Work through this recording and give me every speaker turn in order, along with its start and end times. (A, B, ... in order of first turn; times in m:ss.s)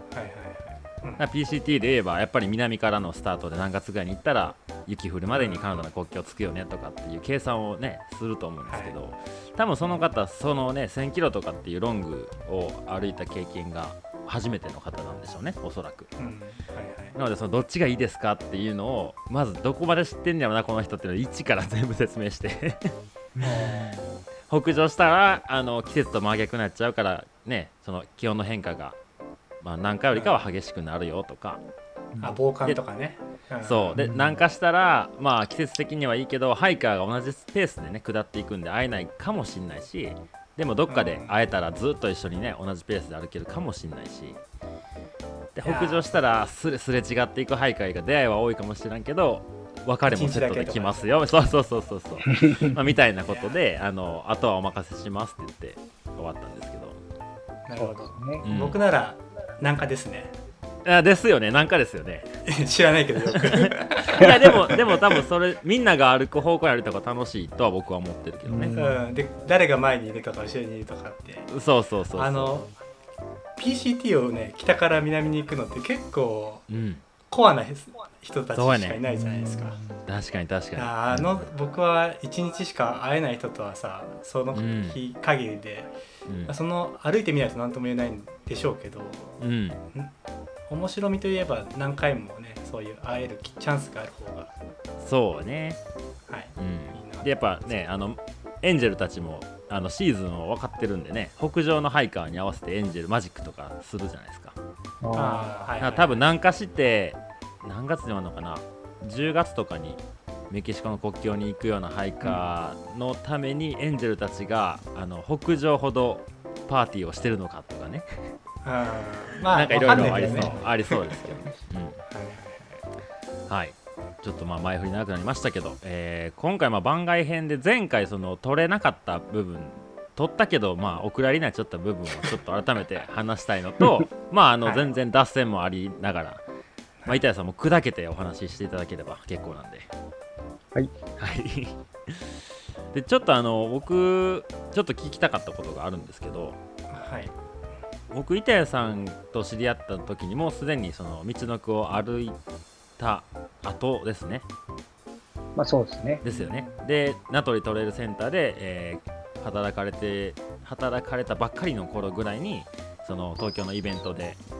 0:00.1-0:01.2 A
0:01.2-0:16.1 B
0:05.3-0:05.8 A
0:08.7-0:08.9 A
0:16.2-0:17.2 A
0:17.1-0:22.9 B
0:23.4-0:24.1 C
0:23.4-0:24.0 A
0:23.4-0:23.7 B
0:24.5-0:29.0 B
0:29.6-0:31.6 B
0:30.1-0:30.4 A
0:32.1-0:32.4 C
0:32.2-0:34.0 A
0:33.6-0:44.4 B
0:34.0-0:34.4 C
0:40.9-0:41.4 A
0:45.5-0:57.0 B
0:45.6-0:46.1 A
0:50.1-0:51.1 A
0:52.3-0:52.7 C
0:53.3-0:53.6 A
0:57.6-1:00.4 A
0:57.8-0:58.4 C
0:58.4-0:58.8 B
1:00.8-1:02.3 B
1:02.4-1:05.1 A
1:03.3-1:08.7 B
1:08.4-1:09.1 C
1:08.7-1:11.5 A
1:11.5-1:12.5 B
1:12.1-1:12.7 A
1:13.6-1:16.6 A
1:16.7-1:17.0 B
1:17.3-1:19.8 A
1:18.5-1:19.0 B
1:19.0-1:19.8 C
1:20.0-1:21.4 B
1:20.8-1:25.9 A
1:24.5-1:25.0 B
1:26.3-1:26.5 B
1:26.4-1:29.4 A
1:29.4-1:29.8 B
1:30.7-1:34.5 A
1:35.0-1:35.8 B
1:36.3-1:37.3 A
1:36.6-1:44.6 B
1:45.0-1:45.7 C
1:45.1-1:46.2 A
1:45.8-1:58.2 B
1:58.6-2:01.5 A
1:59.5-2:02.0 B
1:59.9-2:00.6 C
2:02.1-2:02.8 A
2:03.5-2:16.4 B
2:14.6-2:14.9 A
2:17.1-2:19.9 B
2:21.2-2:22.3 B
2:22.9-2:26.6 B
2:26.9-2:27.3 A
2:28.1-2:32.4 B
2:33.0-2:34.4 B
2:35.6-2:36.2 C
2:36.2-2:44.4 B
2:36.3-2:36.8 A